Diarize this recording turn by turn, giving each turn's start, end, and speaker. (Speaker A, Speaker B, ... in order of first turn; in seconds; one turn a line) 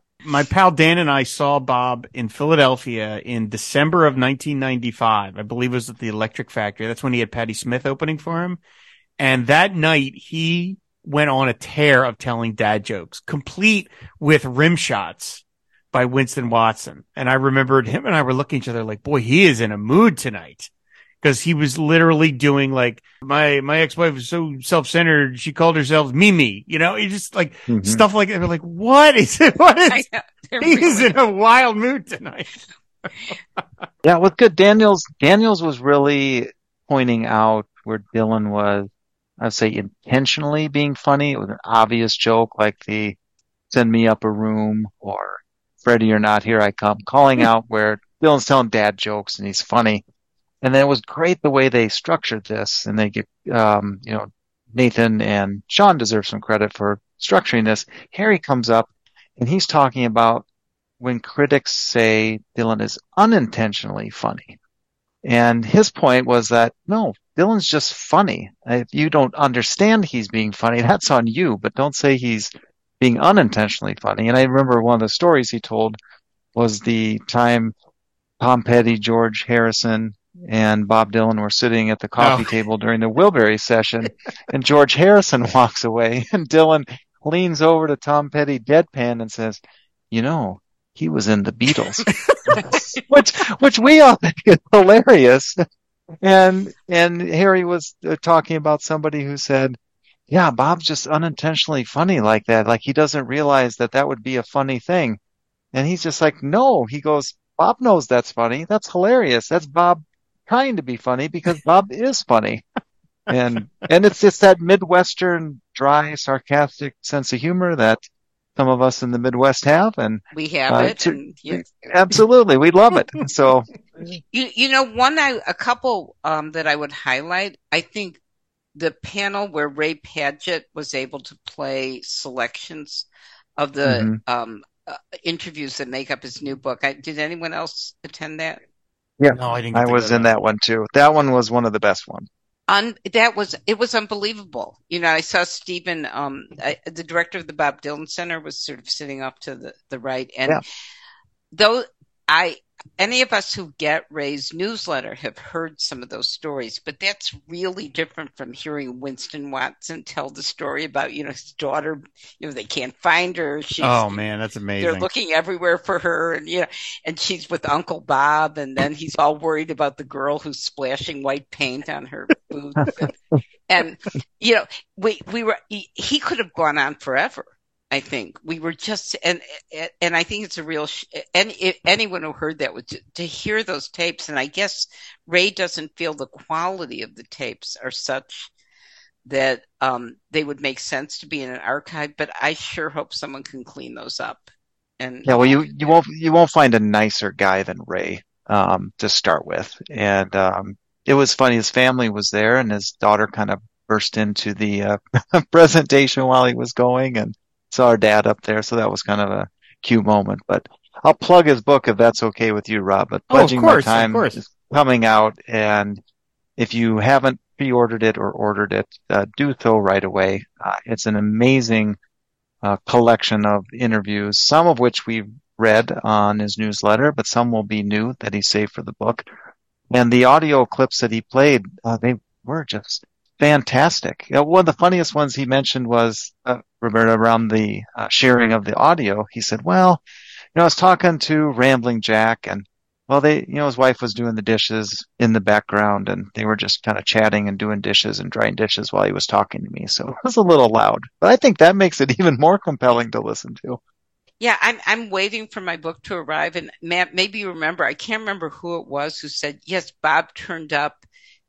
Speaker A: 0.2-8.6
Speaker A: 9.2-15.4
Speaker A: 15.9-20.7
Speaker A: 21.2-30.0
Speaker B: 27.7-28.0
Speaker C: 29.9-31.1
Speaker A: 30.6-32.6
Speaker B: 34.0-43.2
Speaker B: 43.7-50.0
Speaker B: 50.6-60.5
Speaker B: 61.0-64.6
Speaker B: 65.2-76.0
Speaker B: 76.5-77.7
Speaker B: 78.4-95.6
Speaker A: 82.2-82.5
Speaker A: 92.1-92.6
Speaker B: 96.2-99.8
Speaker B: 100.3-105.2
Speaker B: 105.7-112.6
Speaker B: 113.3-118.0
Speaker A: 113.6-113.9
Speaker B: 118.6-123.7
Speaker C: 120.3-121.9
Speaker C: 124.3-128.2
Speaker C: 128.8-138.6
Speaker B: 133.8-134.2
Speaker B: 139.2-142.3
Speaker A: 139.3-140.3
Speaker C: 142.7-150.6
Speaker C: 151.5-164.2
Speaker A: 163.8-165.1
Speaker C: 164.8-173.1
Speaker C: 173.7-188.5
Speaker C: 189.3-194.5
Speaker C: 195.0-195.9
Speaker B: 195.3-216.0
Speaker A: 213.3-214.4
Speaker B: 216.6-222.0
Speaker B: 222.6-229.2
Speaker B: 229.9-240.0
Speaker B: 240.6-253.8
Speaker C: 254.4-261.0